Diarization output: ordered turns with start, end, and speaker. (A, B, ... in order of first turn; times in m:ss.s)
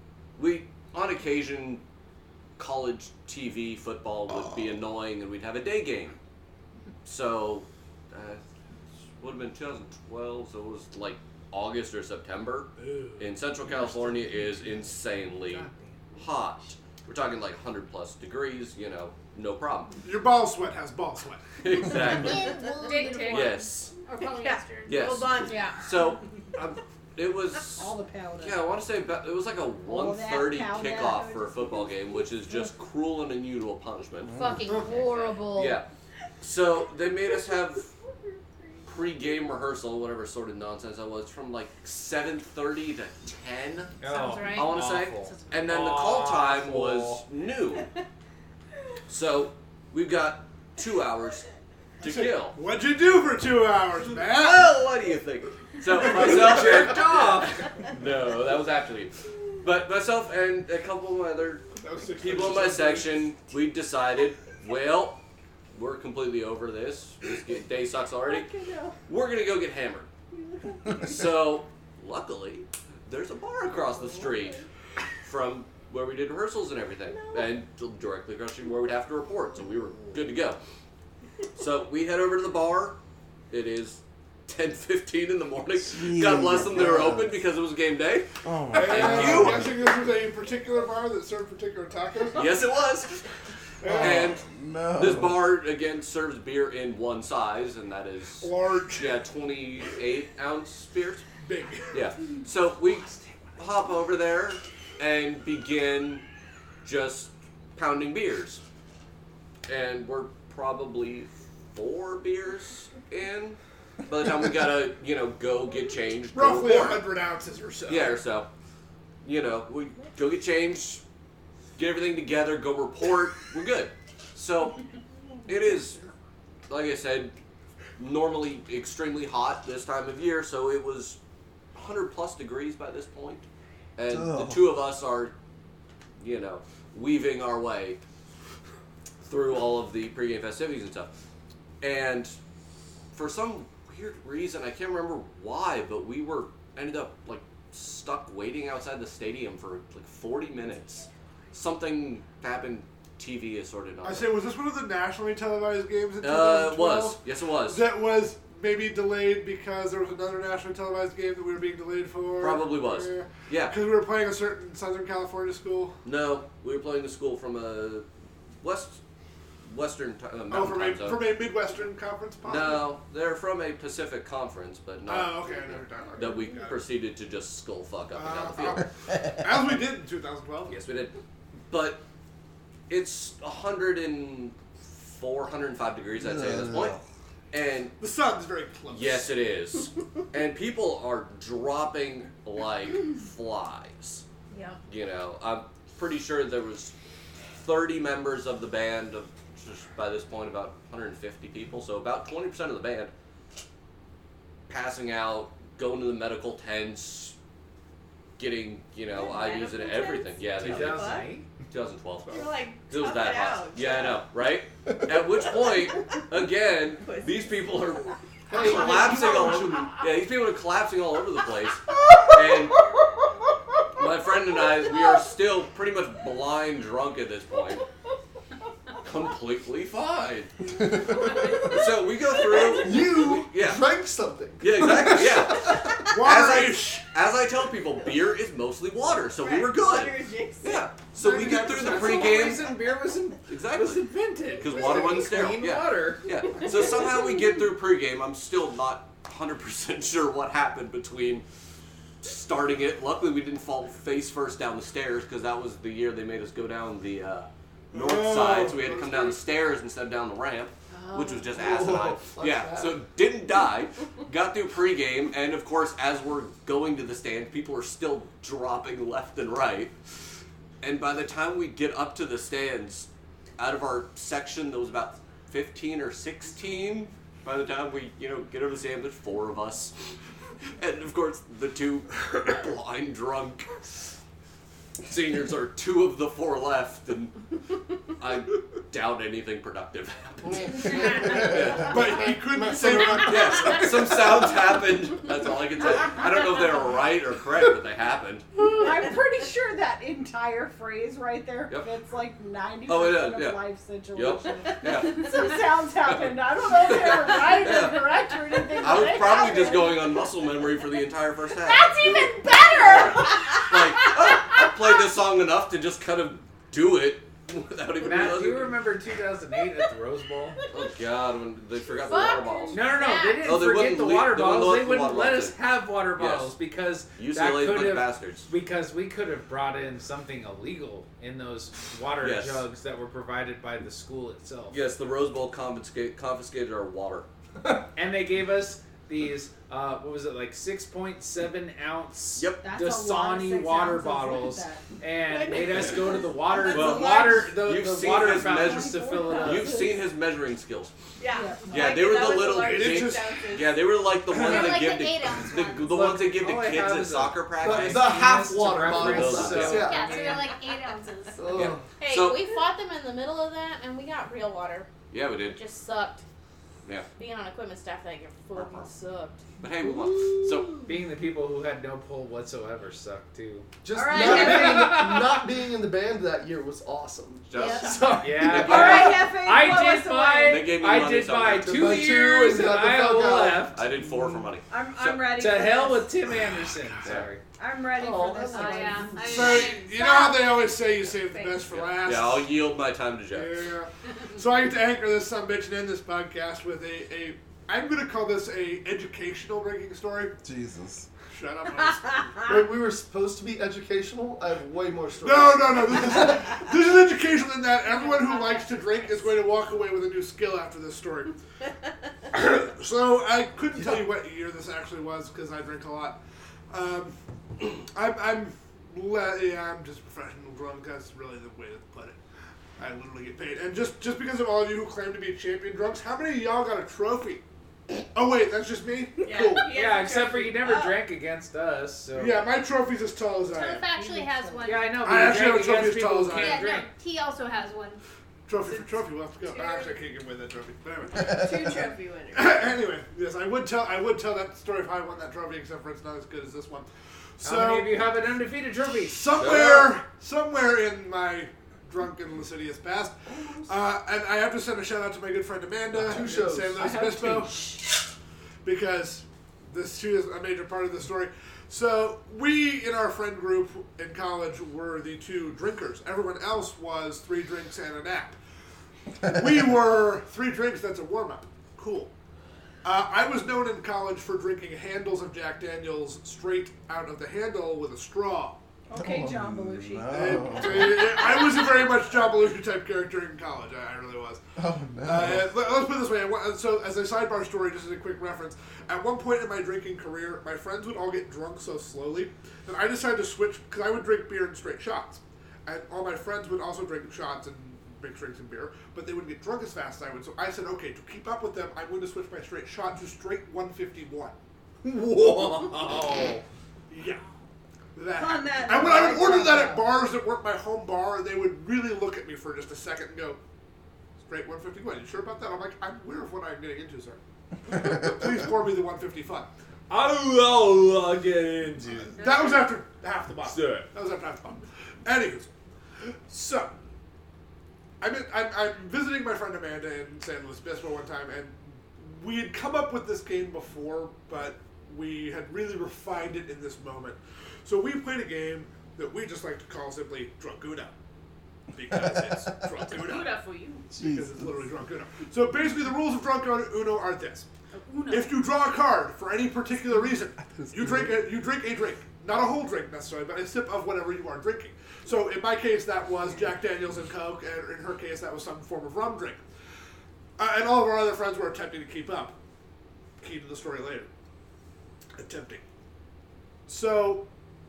0:00.4-0:01.8 A
0:02.6-0:06.2 A
0:07.0-0:08.4 A
0:09.2-0:20.0 A
0:12.8-0:13.3 B
0:13.7-0:16.1 C
0:20.0-0:21.6 B
0:21.6-0:22.5 A
0:21.9-0:23.4 D
0:22.0-0:25.1 E
0:22.8-0:23.5 F
0:23.2-0:23.9 A
0:24.2-0:25.7 D
0:24.9-0:34.4 A
0:25.5-0:25.7 G
0:27.8-0:28.6 H
0:29.9-0:31.6 H
0:34.2-0:34.7 I
0:34.3-0:35.8 G
0:35.5-0:35.9 A
0:36.4-0:37.9 A
0:38.8-0:44.0 A
0:44.0-0:47.2 C
0:44.0-0:45.2 G
0:44.5-0:47.9 A
0:49.1-0:51.5 A
0:52.0-0:52.6 A
0:52.0-0:54.8 B
0:54.1-1:01.6 A
0:55.9-0:56.9 B
0:55.9-0:57.7 C
1:01.8-1:03.3 B
1:02.2-1:05.2 A
1:05.7-1:08.5 A
1:08.5-1:08.9 H
1:09.1-1:10.1 A
1:10.9-1:14.6 A
1:15.2-1:20.6 A
1:21.6-1:23.0 A
1:23.5-1:29.7 A
1:25.9-1:27.4 I
1:28.4-1:29.6 I
1:28.7-1:32.6 B
1:32.3-1:33.3 A
1:33.8-1:34.4 B
1:33.9-1:41.2 A
1:34.0-1:35.4 I
1:38.4-1:39.2 B
1:41.4-1:42.1 B
1:41.9-1:46.2 A
1:42.8-1:43.8 C
1:46.8-1:48.6 A
1:49.7-1:57.1 A
1:56.3-1:58.2 B
1:57.9-1:58.5 A
1:59.2-2:01.0 A
2:01.8-2:04.8 A
2:05.4-2:06.0 A
2:06.7-2:07.3 A
2:08.0-2:11.2 A
2:11.7-2:15.3 A
2:14.1-2:14.6 I
2:16.2-2:18.0 A
2:19.2-2:21.1 A
2:21.8-2:22.4 A
2:23.1-2:34.3 A
2:34.0-2:45.9 B
2:36.2-2:37.8 A
2:42.4-2:43.7 A
2:46.0-2:48.0 A
2:48.6-2:49.0 A
2:49.6-2:51.3 A
2:50.5-2:52.9 B
2:52.4-2:58.8 A
2:55.0-2:56.8 B
2:58.1-3:00.8 B
3:00.7-3:01.2 A
3:01.7-3:02.0 A
3:02.9-3:07.0 A
3:06.3-3:06.9 I
3:07.5-3:08.0 A
3:08.0-3:09.4 B
3:08.9-3:14.2 A
3:14.5-3:14.8 G
3:14.9-3:16.9 A
3:17.5-3:23.1 A
3:24.7-3:27.4 A
3:28.4-3:42.8 A
3:29.1-3:31.3 D
3:30.6-3:31.4 C
3:32.3-3:34.2 D
3:37.0-3:37.5 D
3:38.5-3:39.8 J
3:38.5-3:39.9 B
3:44.0-3:47.8 A
3:49.0-3:53.8 A
3:51.3-3:51.7 D
3:52.8-3:56.0 J
3:54.6-4:02.8 A
3:56.1-3:57.1 B
3:59.4-4:00.8 D
4:01.2-4:02.3 J
4:01.5-4:06.9 C
4:03.5-4:04.0 A
4:04.6-4:11.4 A
4:06.6-4:07.2 D
4:12.2-4:29.9 A
4:17.9-4:19.4 B
4:20.9-4:21.5 G
4:21.5-4:23.0 J
4:30.8-4:39.9 A
4:40.8-4:43.8 A
4:45.0-4:47.4 A
4:48.1-4:52.1 A
4:50.7-4:51.6 H
4:51.5-4:54.5 B
4:52.9-4:58.4 A
4:58.7-5:10.2 H
5:02.9-5:03.6 A
5:04.1-5:12.0 A
5:11.6-5:13.3 H
5:12.8-5:18.8 A
5:18.0-5:20.6 C
5:20.7-5:25.6 A
5:22.0-5:23.5 G
5:22.7-5:34.8 C
5:26.1-5:26.5 A
5:27.1-5:28.5 A
5:32.2-5:32.6 A
5:34.7-5:37.3 A
5:37.9-5:49.8 C
5:42.4-5:42.6 A
5:42.6-5:44.8 H
5:45.2-5:47.5 D
5:46.7-5:50.9 A
5:48.3-5:50.0 H
5:51.2-5:53.8 D
5:51.4-5:52.0 H
5:51.7-5:58.1 A
5:52.4-5:53.4 B
5:54.3-5:54.8 B
5:54.3-5:56.0 E
5:55.9-6:00.5 C
5:57.6-6:00.3 J
5:58.8-5:59.9 A
5:59.7-6:01.5 E
6:01.4-6:01.8 J
6:01.5-6:02.4 A
6:02.0-6:04.9 G
6:05.1-6:05.6 A
6:05.4-6:06.2 G
6:07.2-6:09.4 G
6:08.5-6:08.9 A
6:09.6-6:10.8 A
6:10.8-6:15.4 C
6:13.8-6:17.4 J
6:13.9-6:14.9 H
6:14.0-6:14.8 E
6:17.5-6:19.3 A
6:17.6-6:17.9 G
6:17.6-6:20.7 H
6:18.2-6:23.8 C
6:20.4-6:22.0 A
6:21.6-6:23.7 J
6:23.7-6:25.3 A
6:24.0-6:24.4 I
6:24.7-6:26.1 H
6:25.3-6:27.4 C
6:27.0-6:27.3 A
6:27.6-6:29.7 H
6:28.0-6:29.3 J
6:28.5-6:30.0 F
6:29.2-6:32.5 B
6:30.0-6:31.8 D
6:31.7-6:33.6 A
6:33.3-6:40.3 B
6:40.4-6:41.1 I
6:41.3-6:42.5 B
6:42.4-6:46.5 J
6:45.2-6:51.4 B
6:47.8-6:49.4 D
6:52.3-6:56.2 B
6:56.7-7:02.2 B
7:02.8-7:07.4 B
7:08.1-7:09.7 B
7:09.2-7:11.0 D
7:09.6-7:12.5 C
7:12.1-7:13.9 B
7:13.5-7:15.0 E
7:14.0-7:14.8 H
7:14.6-7:16.9 C
7:15.0-7:16.7 B
7:16.3-7:18.0 E
7:18.5-7:21.8 B
7:21.3-7:22.7 D
7:22.3-7:28.1 B
7:27.4-7:29.5 C
7:29.0-7:37.9 B
7:29.4-7:29.9 A
7:36.0-7:37.7 C
7:36.1-7:36.8 J
7:38.6-7:48.4 B
7:49.2-7:52.1 B
7:52.8-7:58.6 B
7:58.9-8:01.6 H
7:58.9-8:01.1 I
8:00.1-8:04.4 B
8:04.6-8:05.5 I
8:05.0-8:24.4 B
8:24.8-8:26.4 C
8:26.9-8:27.2 B
8:28.0-8:33.4 B
8:28.1-8:29.9 H
8:34.2-8:37.2 B
8:37.7-8:39.5 B
8:39.9-8:42.0 A
8:39.9-8:42.0 C
8:42.1-8:45.5 B
8:42.2-8:42.8 F
8:43.5-8:43.9 A
8:46.3-8:46.7 B
8:48.0-9:00.9 B
9:01.7-9:03.4 B
9:02.8-9:03.8 F
9:03.9-9:07.4 B
9:04.0-9:04.4 I
9:07.7-9:08.4 F
9:08.1-9:19.4 B
9:10.6-9:11.1 I
9:20.4-9:22.4 B
9:23.2-9:24.1 B
9:25.2-9:25.6 B
9:26.7-9:27.3 B